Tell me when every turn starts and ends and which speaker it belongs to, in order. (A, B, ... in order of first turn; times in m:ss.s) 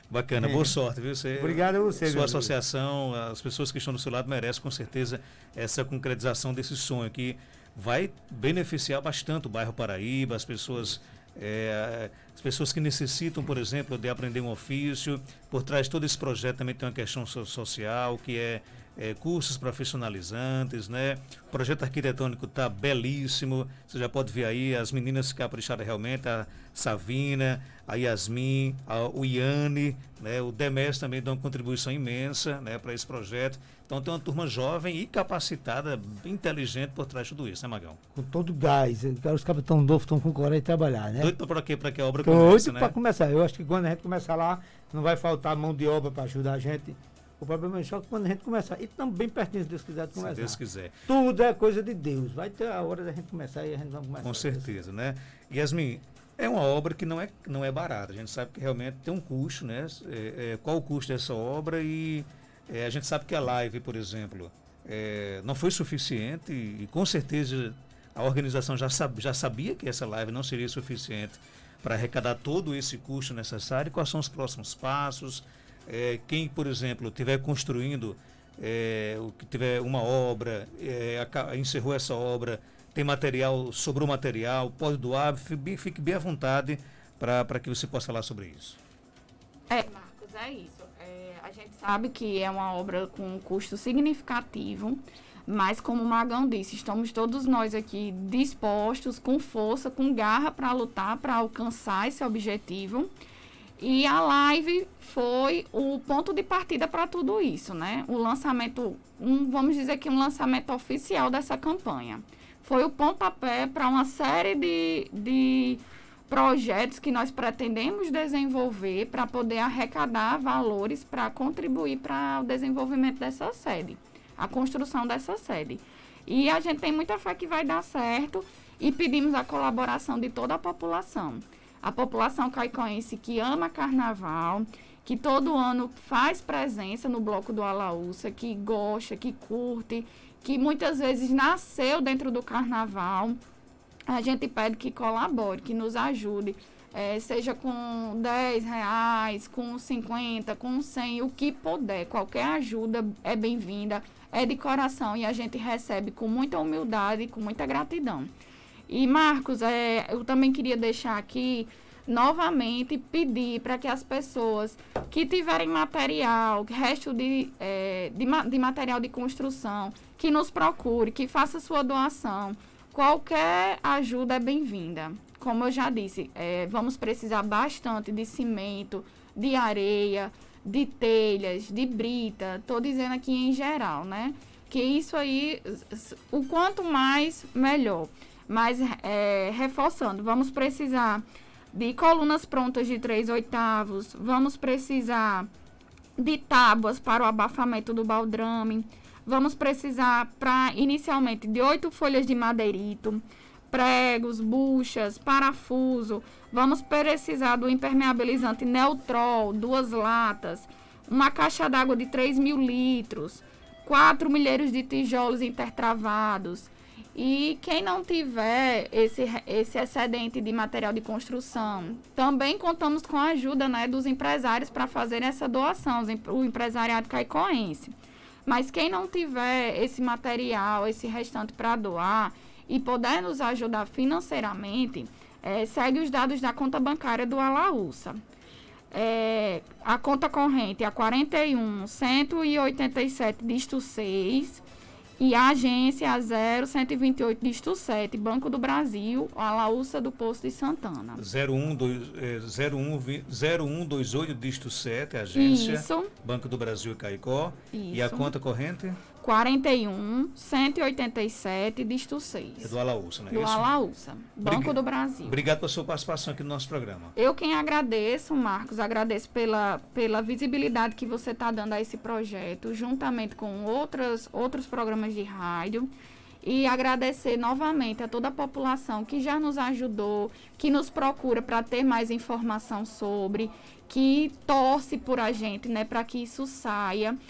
0:00.1-0:38.0 A
0:00.3-0:00.8 B
0:01.3-0:02.5 B
0:38.1-0:41.3 B
0:41.2-0:43.0 A
0:42.2-0:54.8 B
0:50.2-0:51.0 A
0:54.2-1:28.8 A
1:29.7-1:43.1 C
1:43.8-2:23.4 C
2:24.1-2:38.3 C
2:38.9-3:15.5 C
3:16.2-3:47.9 C
3:48.4-3:58.2 C
3:58.9-4:04.6 C
4:05.2-4:11.2 C
4:11.2-4:19.1 A
4:15.3-4:16.2 C
4:17.7-4:18.3 C
4:19.1-4:22.8 C
4:22.6-4:23.7 A
4:23.3-4:25.4 C
4:24.4-4:27.1 A
4:27.2-4:35.9 C
4:36.4-4:47.2 C